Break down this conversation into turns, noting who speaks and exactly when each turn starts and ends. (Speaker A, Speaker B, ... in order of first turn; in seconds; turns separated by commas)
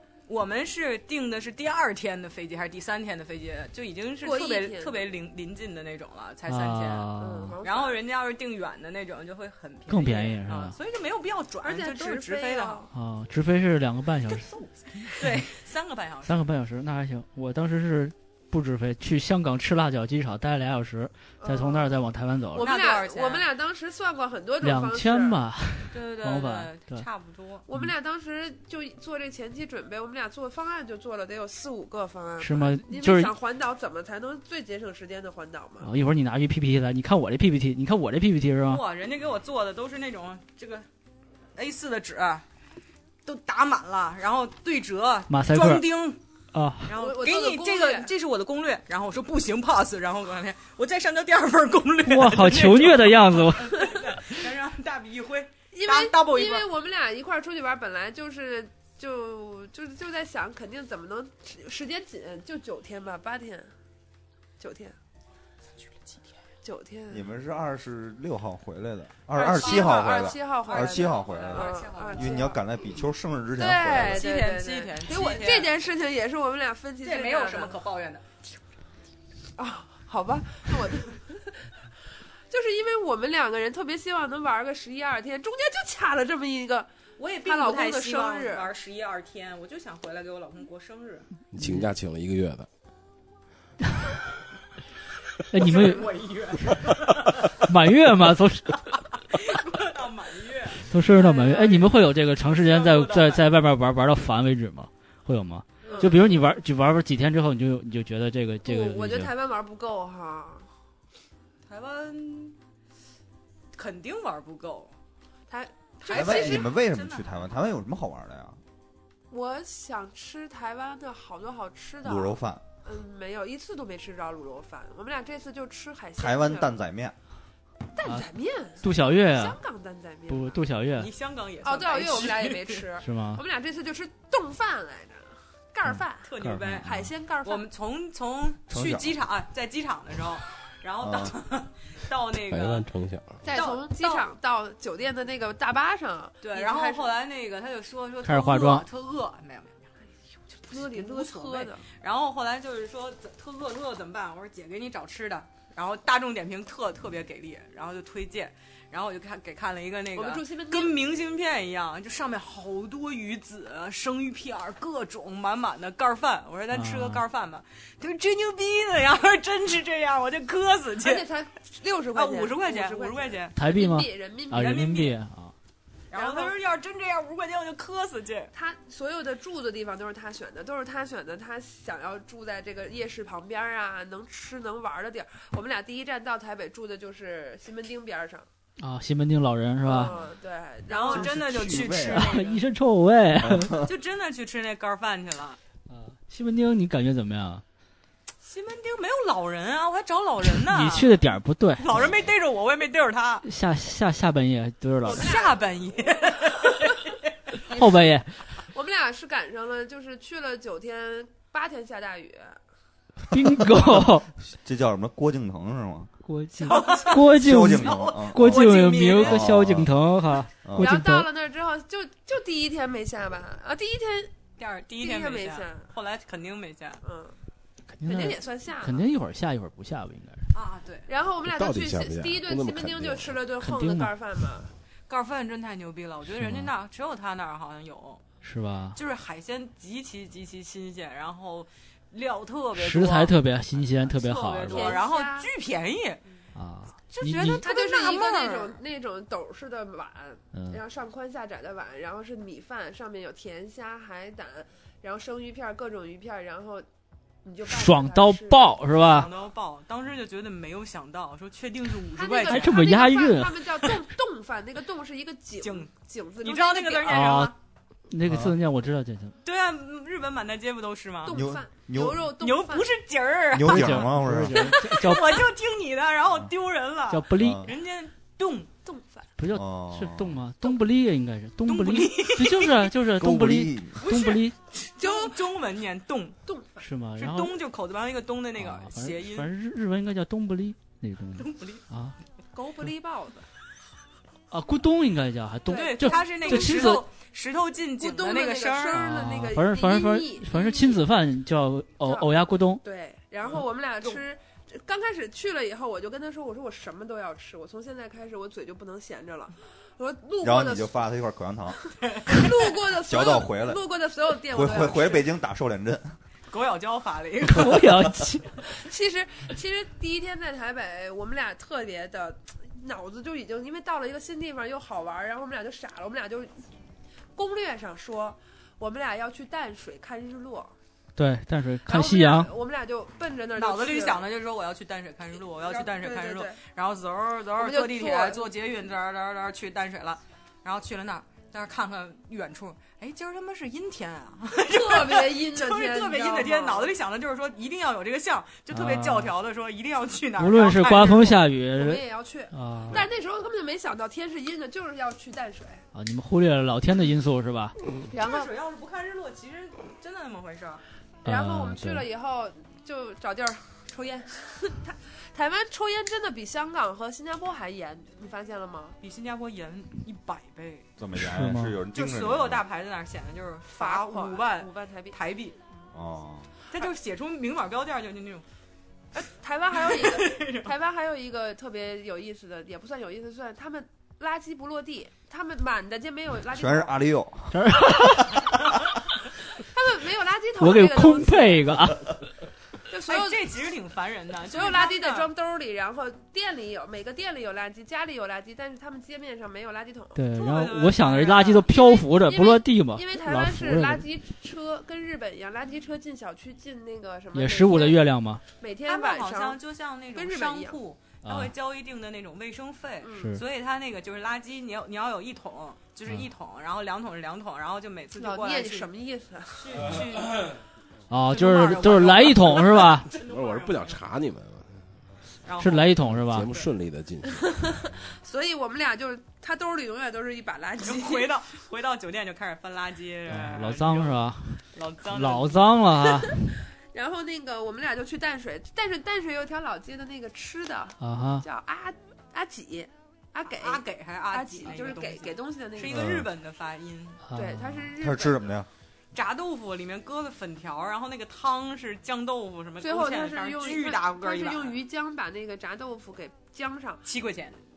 Speaker A: 0.3-7.1, Speaker B: 4.2-5.1, Speaker C: 6.5-7.6, Speaker B: 7.2-8.0, Speaker A: 7.6-12.9, Speaker C: 9.9-10.8, Speaker B: 11.6-12.9, Speaker C: 12.9-14.5, Speaker A: 14.3-16.4, Speaker C: 16.3-22.7, Speaker B: 21.4-21.9, Speaker B: 22.5-25.4, Speaker A: 22.6-23.5, Speaker C: 24.6-27.1, Speaker A: 25.9-27.6, Speaker B: 27.7-35.9, Speaker C: 32.4-33.3, Speaker C: 35.8-38.8, Speaker A: 38.7-40.9, Speaker A: 41.5-42.5, Speaker A: 43.2-46.2, Speaker C: 45.3-45.9, Speaker C: 46.5-46.9, Speaker A: 46.9-56.7, Speaker B: 47.0-48.1, Speaker C: 52.0-53.9, Speaker B: 55.7-63.7, Speaker B: 64.6-65.0, Speaker A: 65.8-66.3, Speaker B: 66.6-67.3, Speaker D: 67.1-74.2, Speaker B: 69.3-72.6, Speaker A: 69.3-72.5, Speaker B: 73.6-77.8, Speaker A: 73.9-75.8, Speaker A: 77.0-78.3, Speaker B: 79.6-81.8, Speaker B: 82.5-86.9, Speaker A: 87.2-91.3, Speaker B: 87.4-88.7, Speaker E: 91.5-92.7, Speaker C: 91.6-91.9, Speaker C: 95.5-96.1, Speaker A: 95.5-97.6, Speaker C: 97.6-98.8, Speaker A: 99.3-103.5, Speaker C: 100.8-109.3, Speaker B: 101.2-101.9, Speaker A: 105.8-106.2, Speaker B: 105.9-106.3, Speaker B: 108.7-110.7, Speaker A: 111.7-112.6, Speaker A: 113.7-115.0, Speaker B: 115.5-116.7, Speaker A: 116.0-117.5, Speaker D: 116.1-118.6, Speaker B: 119.3-126.7, Speaker D: 122.0-122.6, Speaker D: 126.2-127.2, Speaker B: 128.0-130.6, Speaker C: 128.8-129.6, Speaker C: 130.3-131.1, Speaker A: 131.0-132.8, Speaker B: 131.6-137.7, Speaker C: 133.0-133.4, Speaker C: 135.9-136.8, Speaker A: 136.2-142.9, Speaker D: 138.7-139.2, Speaker D: 141.0-141.3, Speaker E: 142.5-143.4, Speaker B: 143.4-147.1, Speaker A: 143.5-144.3, Speaker A: 146.4-149.9, Speaker C: 148.2-148.9, Speaker B: 150.6-151.8, Speaker A: 150.7-171.3, Speaker B: 160.1-161.0, Speaker C: 166.7-167.2, Speaker B: 171.0-174.9, Speaker A: 172.1-173.5, Speaker C: 173.6-175.5, Speaker A: 174.5-175.2, Speaker A: 176.1-178.5, Speaker B: 176.1-176.6, Speaker B: 178.5-188.5, Speaker C: 188.8-190.1, Speaker B: 189.8-191.4, Speaker A: 190.0-190.3, Speaker A: 190.9-192.7, Speaker D: 191.1-192.4, Speaker C: 191.9-193.8, Speaker D: 193.4-193.9, Speaker A: 193.8-195.6, Speaker C: 195.9-197.6, Speaker A: 198.4-201.1, Speaker C: 200.7-202.0, Speaker A: 201.8-203.5, Speaker C: 203.4-205.3, Speaker B: 205.0-206.8, Speaker A: 205.1-207.2, Speaker C: 207.6-208.3, Speaker B: 207.7-212.6, Speaker C: 213.3-214.3, Speaker D: 213.7-216.1, Speaker C: 216.2-221.3, Speaker B: 216.6-217.2, Speaker A: 216.7-219.5, Speaker D: 217.2-219.9, Speaker D: 220.6-220.9, Speaker B: 220.8-224.3, Speaker A: 224.6-227.0, Speaker B: 225.0-225.9, Speaker B: 227.0-227.4, Speaker C: 227.9-230.5, Speaker B: 228.0-229.0, Speaker A: 230.5-231.1, Speaker B: 231.1-234.7, Speaker E: 231.4-233.4, Speaker C: 233.6-234.1, Speaker A: 235.1-238.2, Speaker C: 236.3-236.7, Speaker C: 238.4-239.0, Speaker A: 238.9-243.4, Speaker C: 242.8-245.0, Speaker B: 244.1-245.5, Speaker A: 244.3-246.2, Speaker C: 246.6-247.6, Speaker A: 247.1-248.8, Speaker B: 247.6-256.9, Speaker C: 250.5-250.8, Speaker B: 257.4-258.8, Speaker C: 257.6-259.3, Speaker A: 259.0-262.9, Speaker B: 262.1-267.4, Speaker C: 262.4-263.7, Speaker A: 265.6-267.5, Speaker C: 267.1-267.5, Speaker C: 268.1-269.4, Speaker D: 268.3-268.5, Speaker A: 269.4-271.5, Speaker B: 271.2-272.9, Speaker D: 271.3-272.3, Speaker A: 272.4-278.7, Speaker D: 273.5-274.8, Speaker C: 273.6-275.4, Speaker C: 277.1-277.7, Speaker D: 277.4-277.7, Speaker B: 278.9-279.3, Speaker C: 279.4-284.5, Speaker D: 279.5-280.4, Speaker A: 281.7-282.9, Speaker D: 283.1-284.0, Speaker A: 284.0-286.4, Speaker B: 285.0-285.4, Speaker B: 286.5-286.9, Speaker C: 286.8-287.6, Speaker A: 287.2-289.5, Speaker C: 288.6-292.2, Speaker A: 291.4-291.8, Speaker B: 292.5-293.5, Speaker C: 294.5-297.1, Speaker B: 295.7-296.9, Speaker A: 295.7-299.1, Speaker B: 298.0-301.0, Speaker C: 298.9-302.8, Speaker B: 302.0-302.3, Speaker B: 302.8-311.0, Speaker D: 310.4-311.8, Speaker B: 312.3-315.3, Speaker D: 312.9-313.8, Speaker D: 314.5-316.1, Speaker A: 316.5-317.9, Speaker C: 317.5-318.5, Speaker B: 318.6-326.6, Speaker B: 327.4-330.7, Speaker C: 331.2-332.5, Speaker B: 331.9-334.2, Speaker A: 333.6-351.4, Speaker B: 335.6-336.6, Speaker B: 337.6-338.4, Speaker B: 344.6-346.9, Speaker C: 348.7-349.3, Speaker C: 350.4-353.0, Speaker B: 351.7-355.8, Speaker C: 355.9-357.8, Speaker B: 358.1-358.5, Speaker A: 358.1-360.8, Speaker C: 361.2-362.1, Speaker B: 361.2-369.0, Speaker A: 369.0-370.9, Speaker D: 371.0-372.6, Speaker C: 371.2-371.8, Speaker A: 371.9-375.6, Speaker B: 373.7-375.2, Speaker D: 375.9-376.5, Speaker A: 376.7-378.4, Speaker B: 379.1-387.0, Speaker A: 379.7-380.7, Speaker D: 386.5-387.8, Speaker C: 387.5-388.4, Speaker B: 389.6-391.9, Speaker C: 390.6-392.2, Speaker B: 392.9-393.5, Speaker A: 393.1-395.3, Speaker B: 394.5-400.2, Speaker C: 400.1-404.1, Speaker A: 400.4-401.7, Speaker B: 401.7-408.0, Speaker C: 407.3-408.4, Speaker B: 408.6-409.6, Speaker A: 408.9-418.9, Speaker B: 410.1-410.8, Speaker C: 411.2-411.5, Speaker B: 413.0-413.3, Speaker C: 413.2-413.4, Speaker B: 418.1-420.0, Speaker A: 419.6-420.6, Speaker E: 420.0-420.5, Speaker C: 421.1-423.1, Speaker A: 421.3-424.0, Speaker E: 423.2-425.0, Speaker A: 425.4-425.9, Speaker C: 425.6-426.5, Speaker E: 426.2-427.9, Speaker B: 427.3-431.3, Speaker A: 430.8-435.7, Speaker C: 433.3-436.5, Speaker B: 436.3-446.2, Speaker C: 441.0-441.4, Speaker A: 443.5-447.2, Speaker C: 447.2-447.9, Speaker B: 447.3-448.5, Speaker D: 448.0-448.7, Speaker A: 449.1-454.8, Speaker B: 452.8-457.0, Speaker A: 457.1-457.6